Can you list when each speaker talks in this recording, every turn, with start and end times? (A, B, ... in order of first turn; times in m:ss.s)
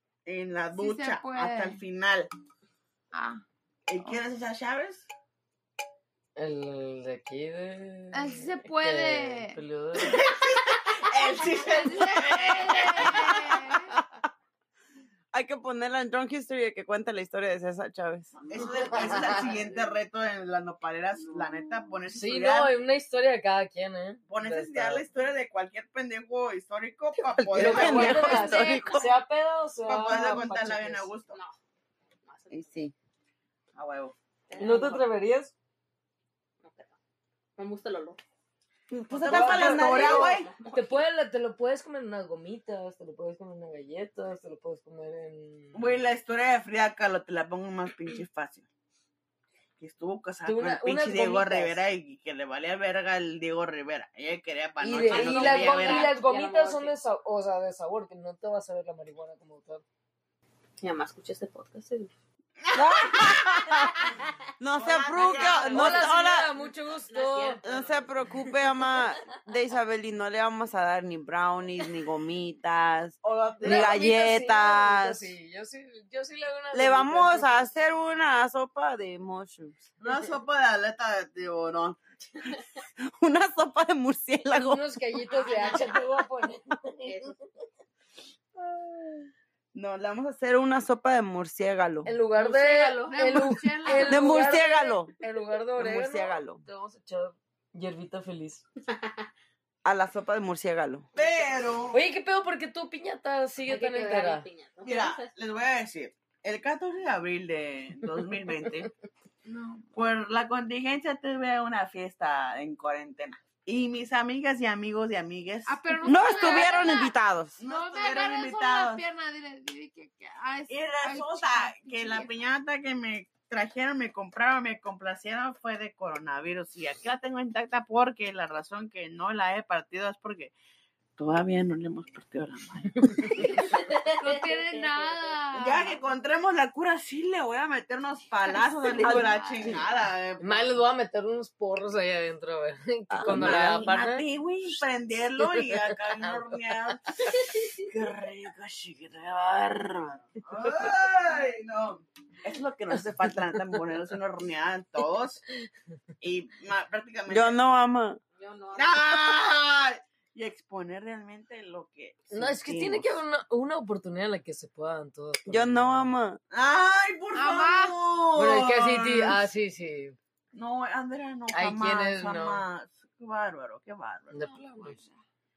0:00.2-0:02.3 A
0:00.7-0:01.8 B
0:03.1-0:03.4 B
0:03.9-0:05.1 A
0:06.4-0:10.2 C
0:08.1-0:09.6 B
0:10.0-0:13.8 A
0:11.0-0:14.0 B
0:15.3-0:18.4 D
0:18.5-0:22.7 A
0:22.1-0:25.1 C
0:24.3-0:28.5 A
0:27.3-0:29.1 D
0:27.5-0:31.1 C
0:28.1-0:29.0 B
0:29.8-0:31.4 A
0:31.3-0:31.6 E
0:32.2-0:32.8 E
0:32.5-0:32.9 D
0:33.7-0:34.2 A
0:34.5-0:35.0 E
0:34.6-0:35.5 C
0:36.6-0:37.0 E
0:37.6-0:38.2 E
0:38.9-0:40.2 D
0:39.1-0:46.0 C
0:39.2-0:40.5 A
0:39.3-0:41.0 E
0:45.7-0:48.7 A
0:49.8-0:56.1 A
0:50.4-0:51.8 C
0:54.8-0:59.8 C
0:54.9-0:57.0 E
1:00.8-1:02.1 E
1:02.6-1:03.8 A
1:02.8-1:04.0 D
1:04.6-1:06.5 D
1:04.8-1:06.1 A
1:05.7-1:07.6 C
1:07.1-1:08.2 E
1:07.6-1:15.3 D
1:13.2-1:14.1 A
1:13.6-1:17.7 C
1:16.7-1:19.9 D
1:20.0-1:22.0 A
1:23.2-1:24.8 D
1:24.6-1:27.4 C
1:25.3-1:26.0 E
1:27.1-1:27.3 E
1:28.6-1:29.2 D
1:29.7-1:32.1 D
1:32.0-1:38.6 C
1:32.4-1:34.7 B
1:33.3-1:35.1 D
1:35.8-1:36.6 D
1:39.8-1:41.1 D
1:41.2-1:42.0 A
1:41.9-1:44.5 C
1:43.6-1:45.3 E
1:44.8-1:48.9 A
1:49.5-1:49.9 B
1:49.9-1:56.8 A
1:55.7-2:02.3 B
1:56.1-1:57.6 D
1:57.6-1:59.0 A
2:00.7-2:10.5 A
2:11.2-2:13.5 A
2:13.4-2:15.8 B
2:13.6-2:15.3 E
2:15.6-2:20.8 A
2:19.0-2:19.7 B
2:20.4-2:24.2 C
2:23.1-2:23.9 D
2:23.3-2:35.4 A
2:36.2-2:37.6 A
2:37.3-2:38.2 D
2:38.4-2:39.3 E
2:38.7-2:43.2 A
2:42.3-2:46.1 C
2:45.5-2:46.4 D
2:46.5-2:49.4 A
2:47.3-2:48.0 B
2:48.4-2:50.2 C
2:50.5-2:55.1 A
2:51.5-2:52.6 C
2:54.3-2:55.0 C
2:54.4-2:55.0 B